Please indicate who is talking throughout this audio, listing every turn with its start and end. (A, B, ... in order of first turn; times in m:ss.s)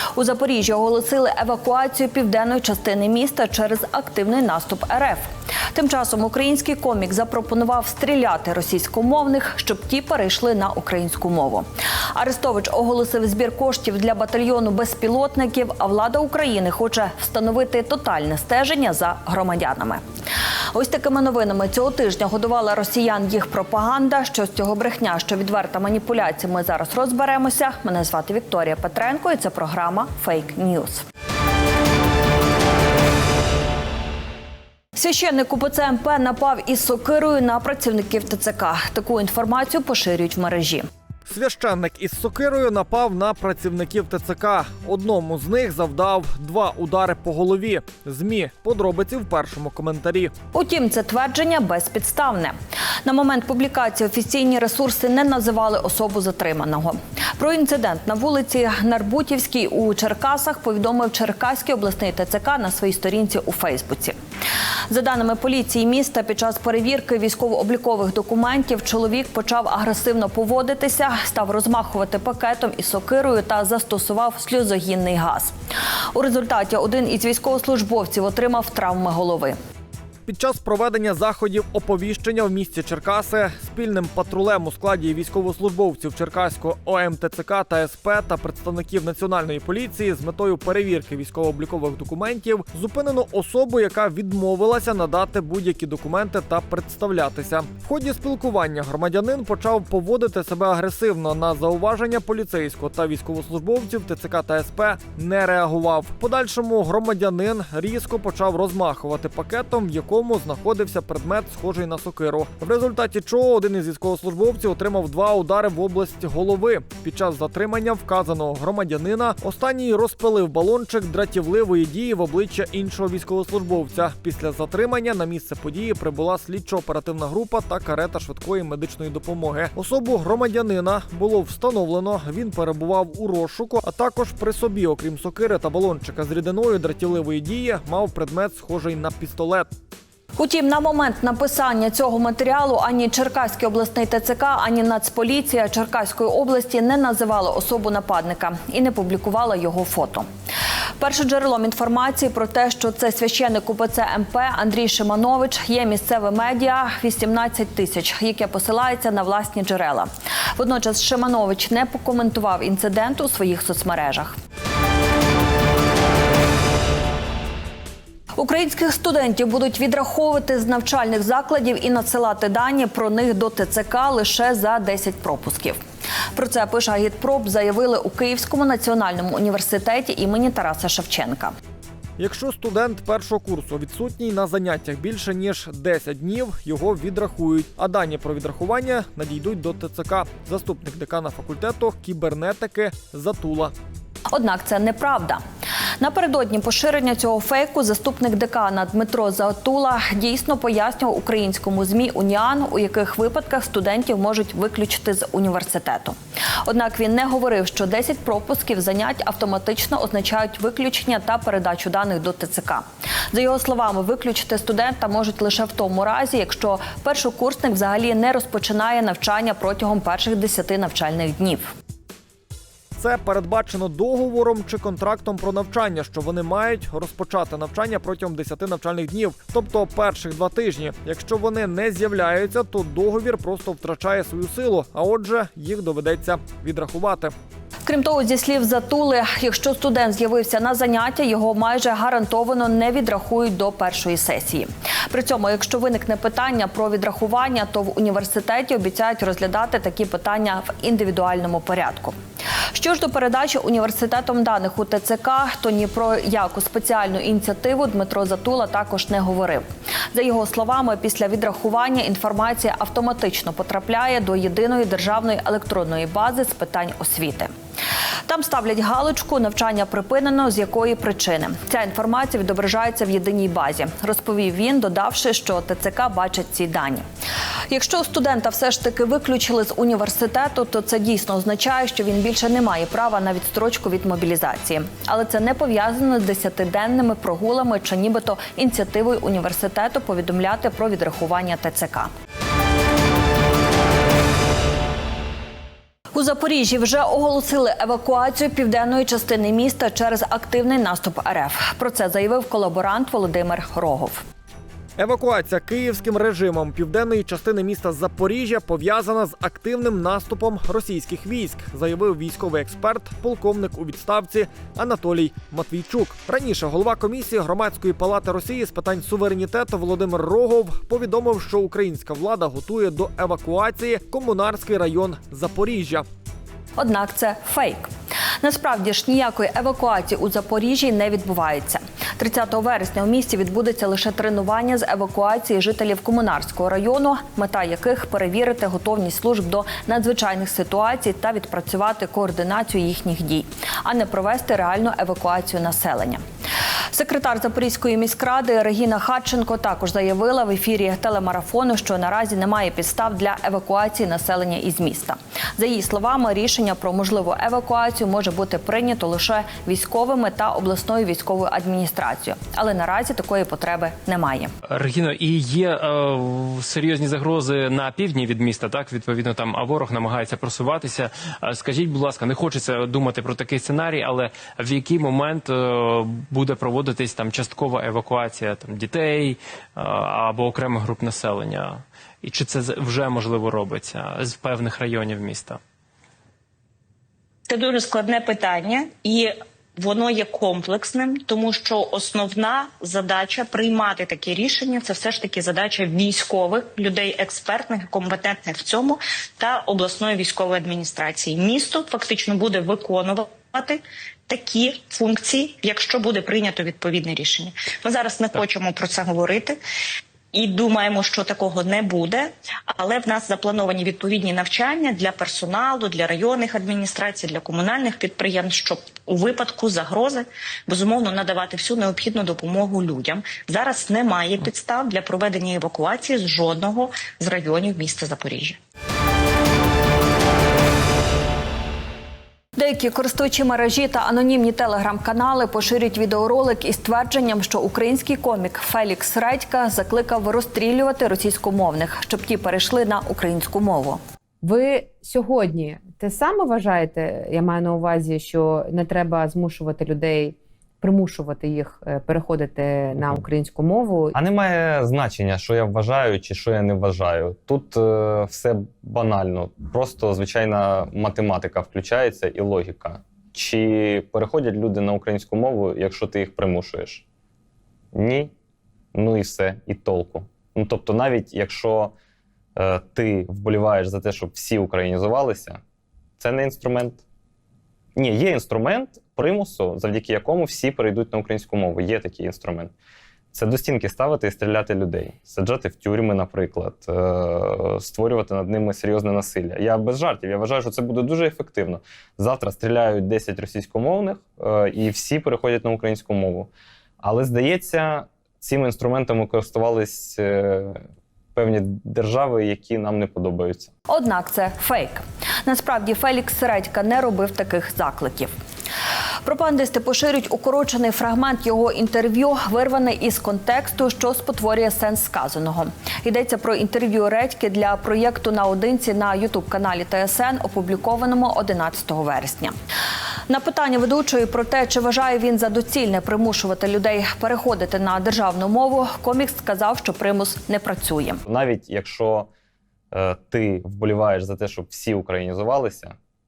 0:00.2-0:20.0 A
0:20.7-0:31.0 A
0:35.0-0:40.9 A
0:41.3-0:50.3 B
0:50.5-1:04.2 A
1:04.9-1:15.5 A
1:16.2-1:19.6 A
1:20.3-2:19.7 B
2:20.4-2:30.3 A
2:31.0-2:44.4 A
2:48.4-2:55.8 A
2:56.4-3:01.5 A
3:02.2-3:13.7 B
3:14.3-3:15.4 A
3:16.0-3:26.2 A
3:26.7-3:41.7 A
3:43.0-3:57.3 B
3:57.9-4:12.1 A
4:12.7-4:27.5 A
4:28.3-4:37.0 A
4:37.7-4:52.1 A
4:56.1-5:04.2 A
5:05.0-5:26.0 B
5:26.8-5:27.9 A
5:28.4-5:46.2 A
5:46.9-6:04.5 A
6:04.7-6:25.6 C
6:27.5-6:49.6 D
6:50.3-7:08.6 D
7:12.6-7:24.0 A
7:24.4-7:30.4 C
7:25.2-7:26.7 E
7:27.4-7:28.0 E
7:28.9-7:30.3 E
7:30.8-7:31.5 E
7:31.2-7:34.1 C
7:33.5-7:34.0 E
7:34.1-7:47.0 F
7:47.9-7:48.3 F
7:48.9-7:51.9 F
7:52.6-7:55.6 F
7:56.2-7:57.0 F
7:58.0-8:02.7 F
8:03.3-8:16.5 F
8:17.0-8:20.8 F
8:21.4-8:23.7 F
8:23.9-8:28.3 A
8:29.2-8:42.5 A
8:43.3-8:51.2 A
8:51.2-8:52.3 F
8:52.9-8:56.0 F